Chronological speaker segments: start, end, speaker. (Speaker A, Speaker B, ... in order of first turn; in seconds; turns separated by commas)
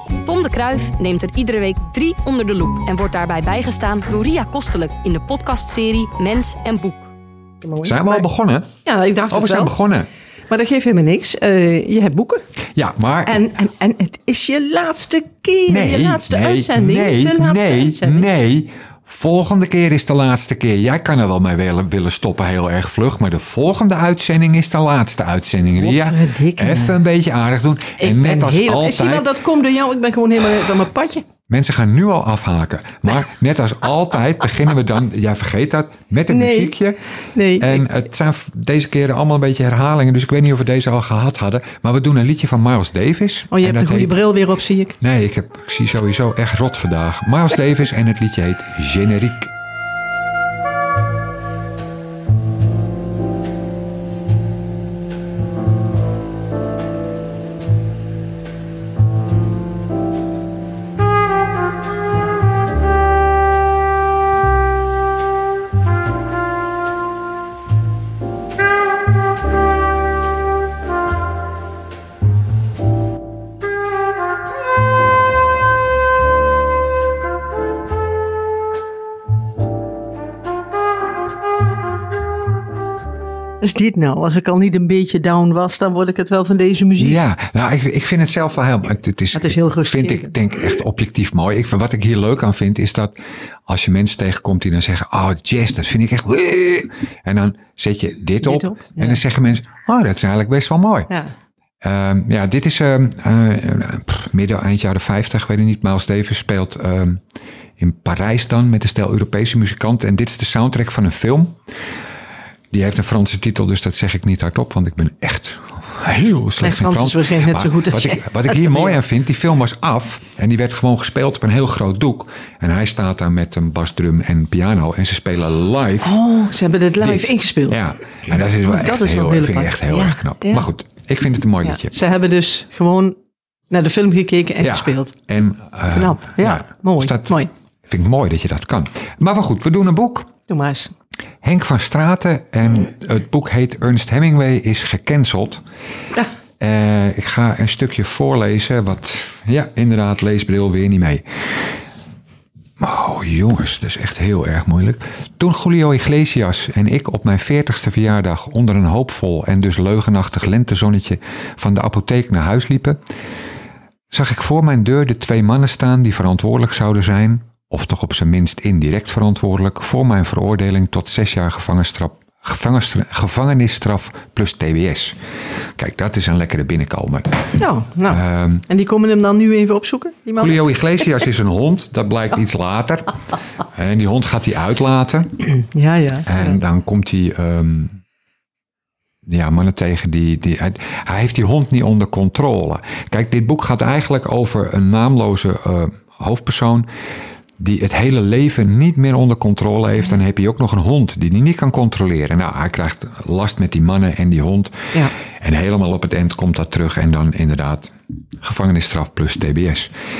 Speaker A: 0.2-7.1, Speaker B: 7.6-8.2, Speaker C: 7.8-8.7, Speaker B: 8.8-9.7, Speaker C: 9.3-10.1, Speaker B: 10.5-12.4, Speaker C: 12.8-13.4, Speaker B: 13.3-18.3, Speaker C: 15.7-29.3, Speaker B: 25.8-27.0, Speaker B: 28.0-31.2, Speaker C: 31.5-37.0, Speaker B: 36.3-36.8, Speaker B: 37.3-37.9, Speaker C: 37.6-44.2, Speaker B: 43.5-45.0, Speaker C: 45.0-49.5, Speaker B: 83.6-87.2, Speaker C: 87.0-93.1, Speaker B: 89.3-90.3, Speaker C: 93.7-101.1, Speaker B: 98.4-99.2, Speaker C: 101.8-107.2, Speaker C: 107.8-111.6, Speaker C: 112.7-126.2, Speaker B: 116.6-119.0, Speaker B: 126.0-127.8, Speaker C: 127.0-132.0, Speaker B: 128.5-130.7, Speaker B: 131.6-133.2, Speaker B: 133.7-135.1, Speaker C: 134.6-137.3, Speaker B: 135.9-137.5, Speaker C: 137.9-140.3, Speaker B: 140.5-140.9, Speaker C: 141.4-145.6, Speaker C: 146.6-151.8, Speaker C: 152.8-163.0, Speaker C: 164.1-175.2, Speaker C: 175.8-177.6, Speaker B: 177.6-180.6, Speaker C: 178.1-178.7, Speaker C: 180.4-183.1, Speaker C: 183.6-185.4, Speaker B: 185.7-186.6, Speaker C: 186.3-188.0, Speaker C: 189.3-196.9, Speaker C: 197.6-209.9